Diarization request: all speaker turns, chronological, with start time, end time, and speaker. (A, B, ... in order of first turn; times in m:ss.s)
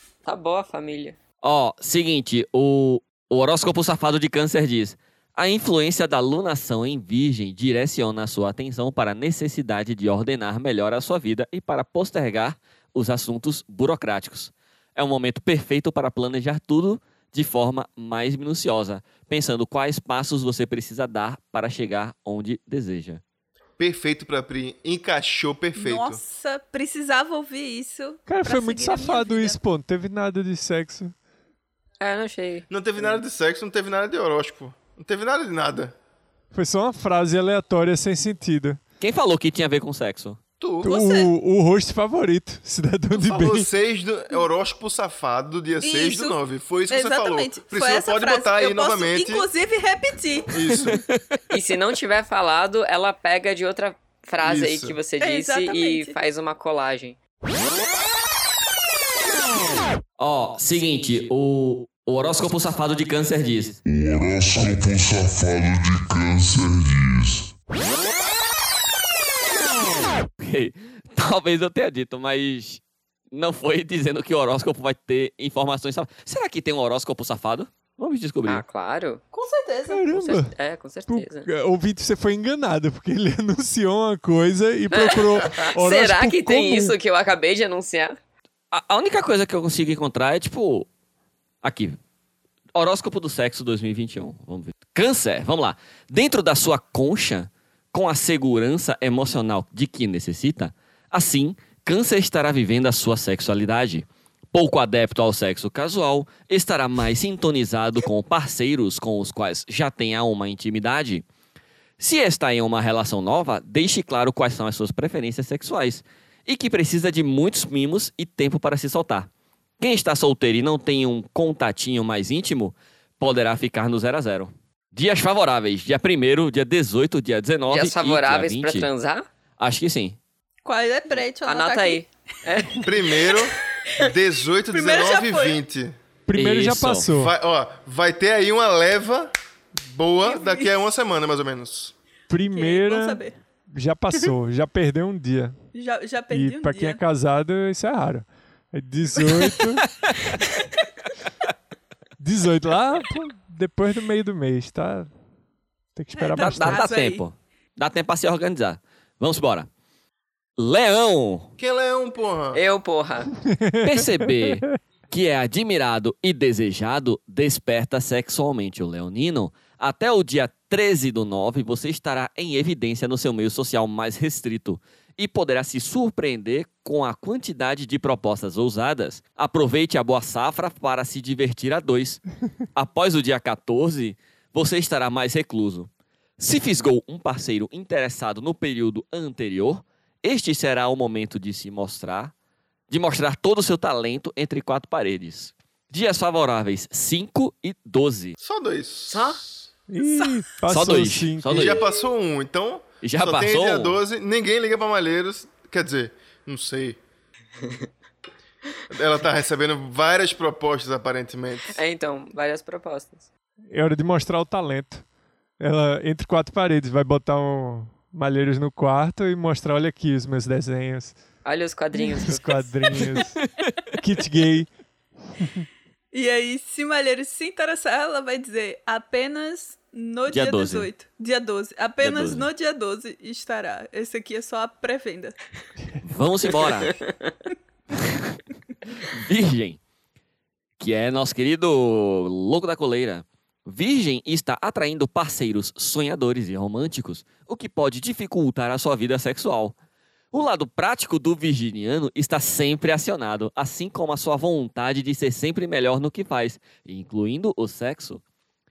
0:00.2-0:01.2 A
0:01.4-0:23.2 B
0:23.8-0:26.2 C
0:25.7-0:29.6 D
0:28.2-0:31.1 E
0:32.0-0:33.2 A
0:32.7-0:35.9 C
0:36.5-0:38.8 E
0:39.0-0:40.4 B
0:40.6-0:40.9 C
0:40.8-0:43.7 E
0:40.8-0:41.3 D
0:43.1-0:49.5 C
0:45.8-0:46.4 D
0:46.9-0:50.7 D
0:50.5-0:51.0 C
0:50.9-0:51.4 B
0:51.5-0:57.2 A
0:54.4-0:55.0 C
0:55.2-0:56.2 D
1:00.2-1:03.8 B
1:03.8-1:07.5 F
1:10.4-1:12.8 B
1:13.3-1:18.6 B
1:18.5-1:19.2 A
1:19.3-1:20.2 D
1:19.9-1:20.5 E
1:20.1-1:21.5 A
1:21.1-1:26.9 E
1:24.9-1:28.2 A
1:28.7-1:30.9 B
1:31.6-1:32.0 B
1:32.7-1:51.2 B
1:52.0-1:59.3 B
1:59.8-2:08.9 B
2:07.7-2:09.2 A
2:09.6-2:10.2 B
2:10.6-2:12.0 D
2:11.1-2:13.3 A
2:12.8-2:15.9 C
2:14.7-2:15.6 D
2:16.3-2:17.3 E
2:16.3-2:17.1 B
2:17.1-2:19.3 C
2:19.8-2:21.9 C
2:20.2-2:20.7 D
2:22.3-2:25.6 E
2:22.5-2:23.4 D
2:25.7-2:27.0 D
2:26.3-2:29.9 E
2:32.2-2:35.1 E
2:35.9-2:36.9 E
2:36.2-2:37.2 D
2:36.4-2:39.7 B
2:40.6-2:41.5 B
2:41.6-2:42.6 C
2:42.5-2:43.3 A
2:43.4-2:44.7 E
2:43.8-3:02.2 B
3:02.7-3:12.3 B
3:12.9-3:18.4 B
3:18.4-3:19.5 C
3:19.1-3:19.4 A
3:19.9-3:21.8 E
3:20.7-3:21.8 B
3:21.5-3:27.0 C
3:23.0-3:24.0 B
3:28.9-3:31.8 C
3:31.7-3:33.3 A
3:33.7-3:35.0 E
3:35.6-3:41.2 E
3:41.4-3:43.2 A
3:42.0-3:43.4 E
3:43.9-3:44.7 E
3:46.1-3:55.3 D
3:50.3-3:50.9 B
3:52.0-3:52.5 B
3:56.0-3:57.0 B
3:56.8-3:57.3 A
3:58.0-3:58.4 B
3:59.0-3:59.8 B
4:00.8-4:09.7 B
4:10.3-4:18.2 B